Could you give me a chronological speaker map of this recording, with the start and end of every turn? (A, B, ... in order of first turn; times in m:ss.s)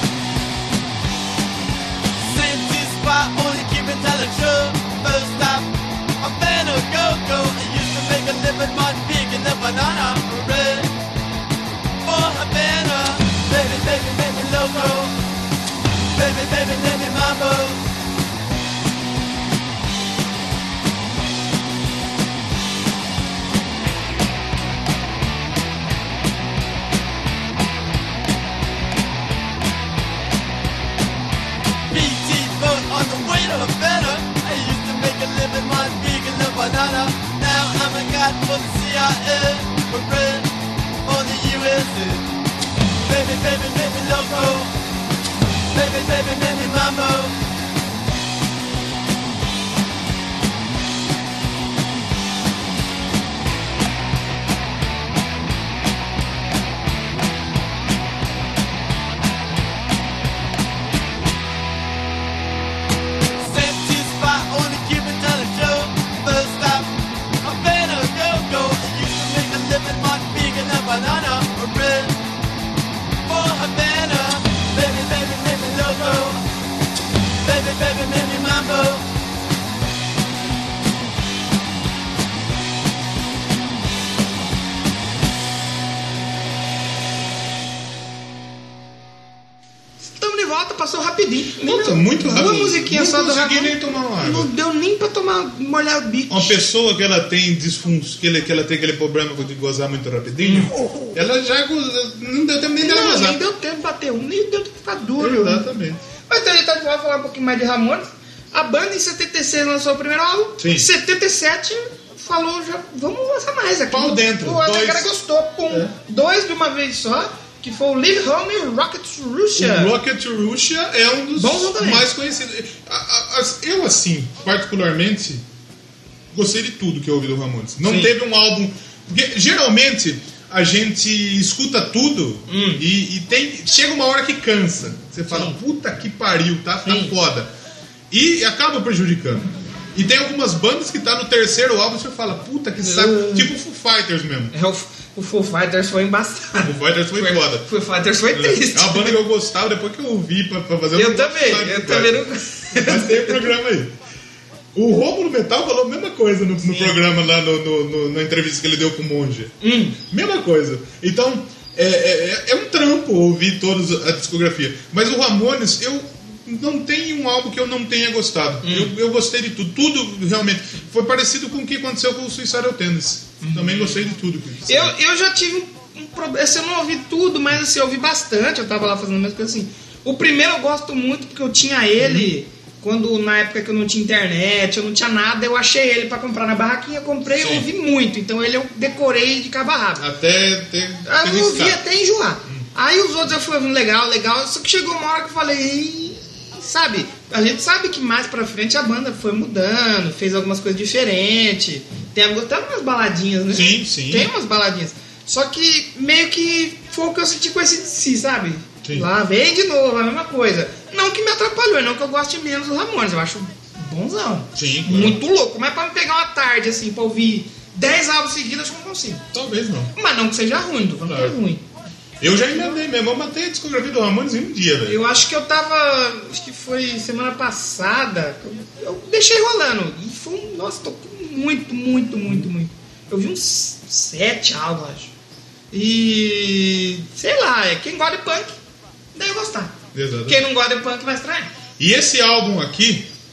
0:02.1-0:05.7 A
0:06.2-0:10.9 A
0:12.0-0:15.2 A
0:16.1-0:17.8 A
0:31.9-0:40.5 A
0:41.0-0:42.3 A
0:43.0-0:44.7 A
0:45.7-0:47.4 A
1:03.4-1:12.2 A
1:13.2-1:16.4 A
1:17.4-1:19.0 A
1:30.0-1:36.6 B
1:31.6-1:34.5 C
1:36.3-1:43.4 C
1:40.4-1:41.1 B
1:42.8-1:45.7 B
1:45.2-1:46.0 C
1:46.3-1:59.9 B
1:50.6-1:50.9 C
1:53.9-1:55.1 C
1:59.5-2:05.4 C
2:01.4-2:02.1 B
2:06.3-2:17.5 C
2:07.8-2:08.1 B
2:12.5-2:12.8 B
2:15.3-2:15.6 B
2:16.8-2:17.1 B
2:18.1-2:24.5 C
2:22.8-2:23.5 B
2:24.5-2:29.2 B
2:26.6-2:27.7 C
2:28.3-2:33.9 C
2:30.9-2:33.5 B
2:34.7-2:54.9 C
2:36.6-2:37.0 B
2:39.6-2:40.0 B
2:48.6-2:48.9 B
2:53.4-2:54.1 B
2:54.6-3:10.0 B
3:02.0-3:02.3 C
3:07.3-3:07.6 C
3:10.0-3:11.8 C
3:11.0-3:39.3 B
3:23.5-3:24.3 C
3:28.8-3:29.1 C
3:34.5-3:35.2 C
3:39.3-3:39.9 C
3:39.9-3:41.6 B
3:41.0-3:41.4 C
3:42.2-3:45.0 C
3:42.5-3:42.8 B
3:44.8-3:55.1 B
3:55.7-3:58.6 B
3:59.1-4:01.5 B
3:59.9-4:00.4 C
4:01.8-4:03.1 C